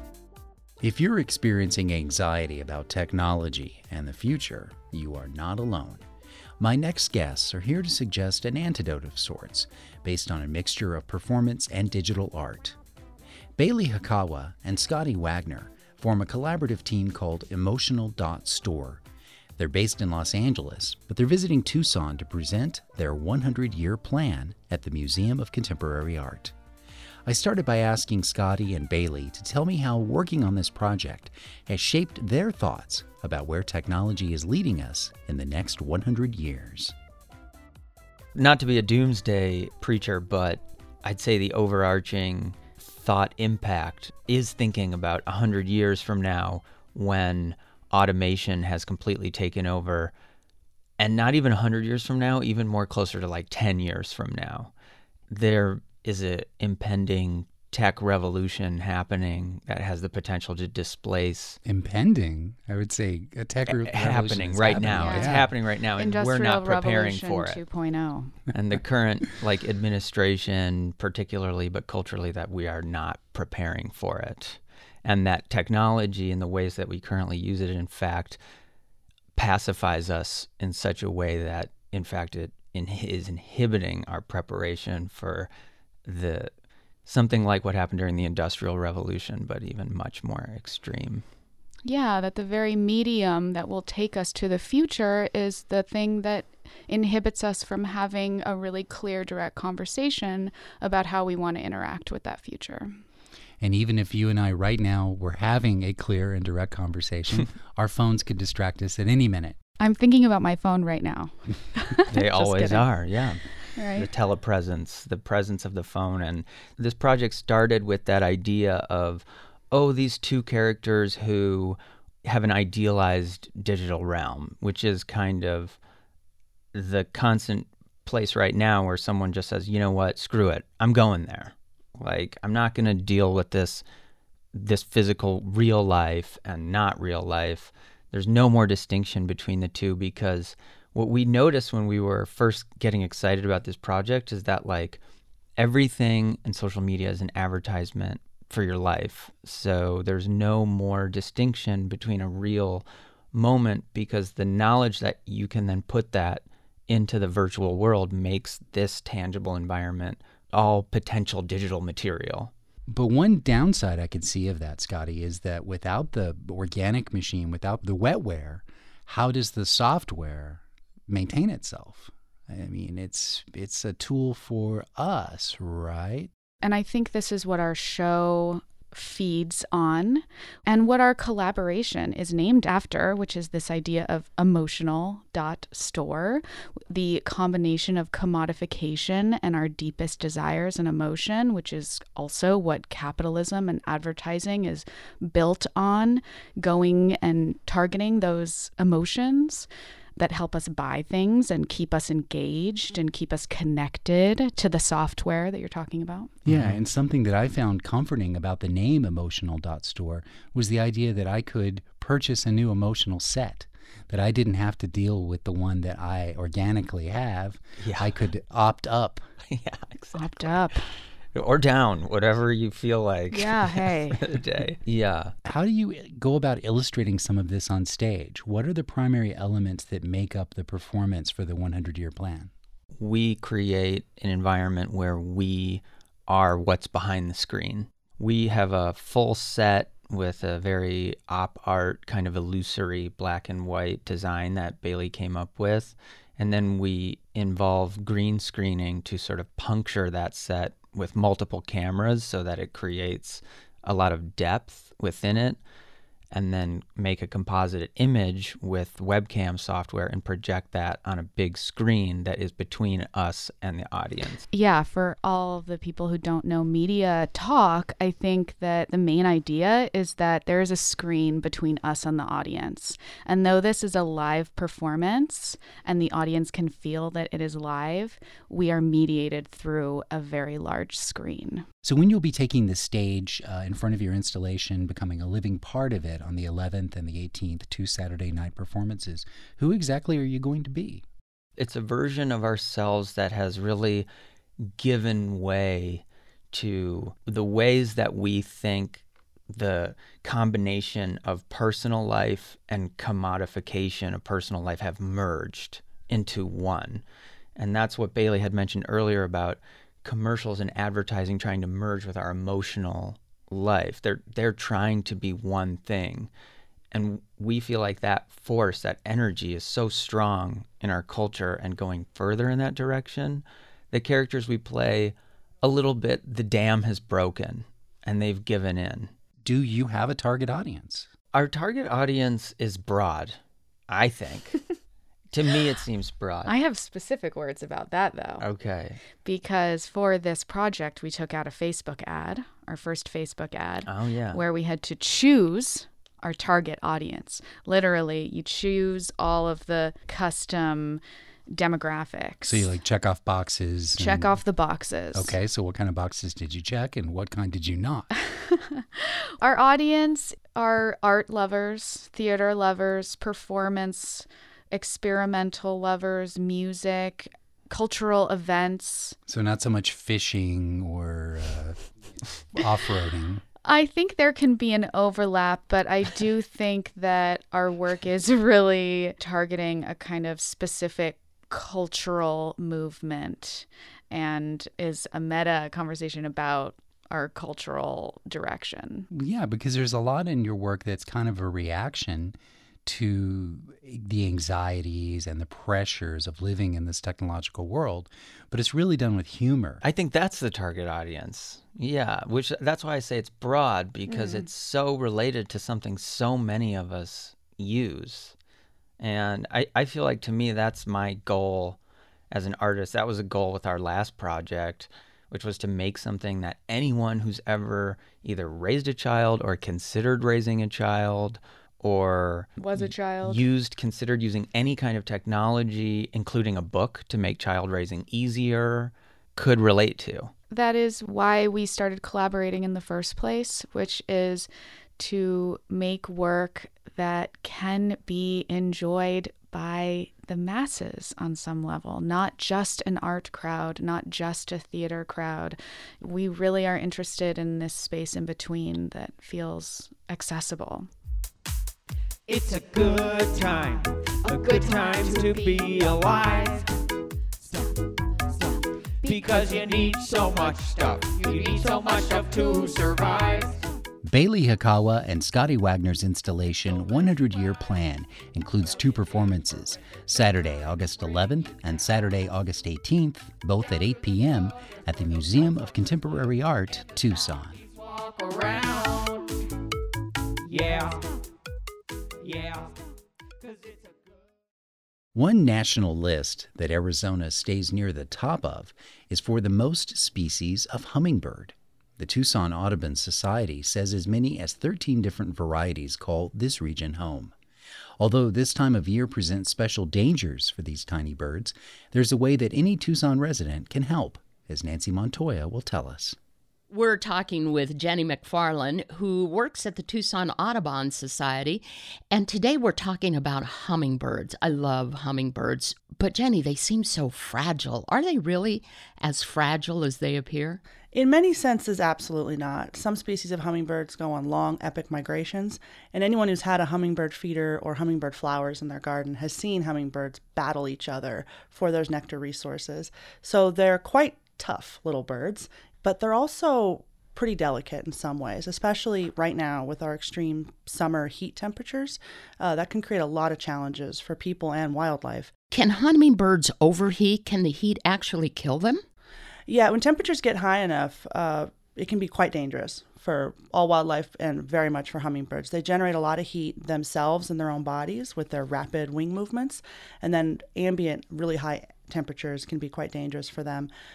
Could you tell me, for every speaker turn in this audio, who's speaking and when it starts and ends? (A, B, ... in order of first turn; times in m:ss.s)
0:00.8-0:06.0 A
0:06.6-0:12.8 A
0:13.6-0:19.0 A
0:19.6-0:26.5 A
0:27.3-0:36.9 A
0:38.4-0:50.1 B
0:51.0-0:54.7 B
0:55.3-1:01.6 B
1:01.6-1:05.5 A
1:03.8-1:07.6 B
1:04.9-1:08.4 C
1:08.5-1:18.4 B
1:19.4-1:25.5 B
1:26.1-1:26.5 B
1:27.1-1:31.2 B
1:31.8-1:43.0 C
1:43.6-1:49.6 A
1:49.8-1:52.9 C
1:52.1-1:53.4 B
1:53.8-1:54.1 C
1:53.9-2:05.8 B
2:06.7-2:13.8 B
2:14.5-2:25.0 B
2:25.6-2:42.5 B
2:42.9-2:56.3 A
2:56.6-3:26.3 C
3:26.4-3:39.3 A
3:26.5-3:26.8 B
3:37.8-3:38.1 B
3:39.5-3:40.4 B
3:40.2-3:40.9 C
3:41.3-3:45.4 B
3:43.3-3:44.2 C
3:45.4-3:52.5 A
3:53.0-4:15.6 B
4:16.3-4:24.5 B
4:24.5-4:41.6 C
4:41.8-4:51.0 A
4:51.6-4:54.1 B
4:54.6-5:07.0 B
5:07.6-5:16.3 B
5:16.9-5:29.1 B
5:29.4-5:31.1 A
5:31.3-5:33.4 B
5:33.9-5:34.6 B
5:35.3-5:36.5 B
5:36.5-5:38.4 C
5:38.4-5:39.0 B
5:39.2-5:52.7 C
5:43.9-5:44.4 B
5:52.4-5:54.4 A
5:54.0-5:55.3 C
5:55.1-5:58.1 A
5:58.4-6:09.2 C
6:09.3-6:11.8 A
6:12.5-6:13.4 A
6:13.6-6:29.1 C
6:29.1-6:39.8 A
6:39.8-6:48.4 B
6:49.0-6:51.8 B
6:52.3-7:10.3 B
7:02.6-7:03.4 C
7:10.5-7:30.9 C
7:32.3-7:36.7 D
7:39.0-7:43.6 D
7:44.0-7:57.6 A
7:57.6-7:59.4 D
8:00.5-8:01.0 D
8:02.2-8:02.8 D
8:03.4-8:04.0 D
8:05.2-8:17.3 A
8:18.0-8:26.2 A
8:26.7-8:40.6 E
8:40.9-9:05.3 F
9:05.5-9:08.8 E
9:09.5-9:23.7 F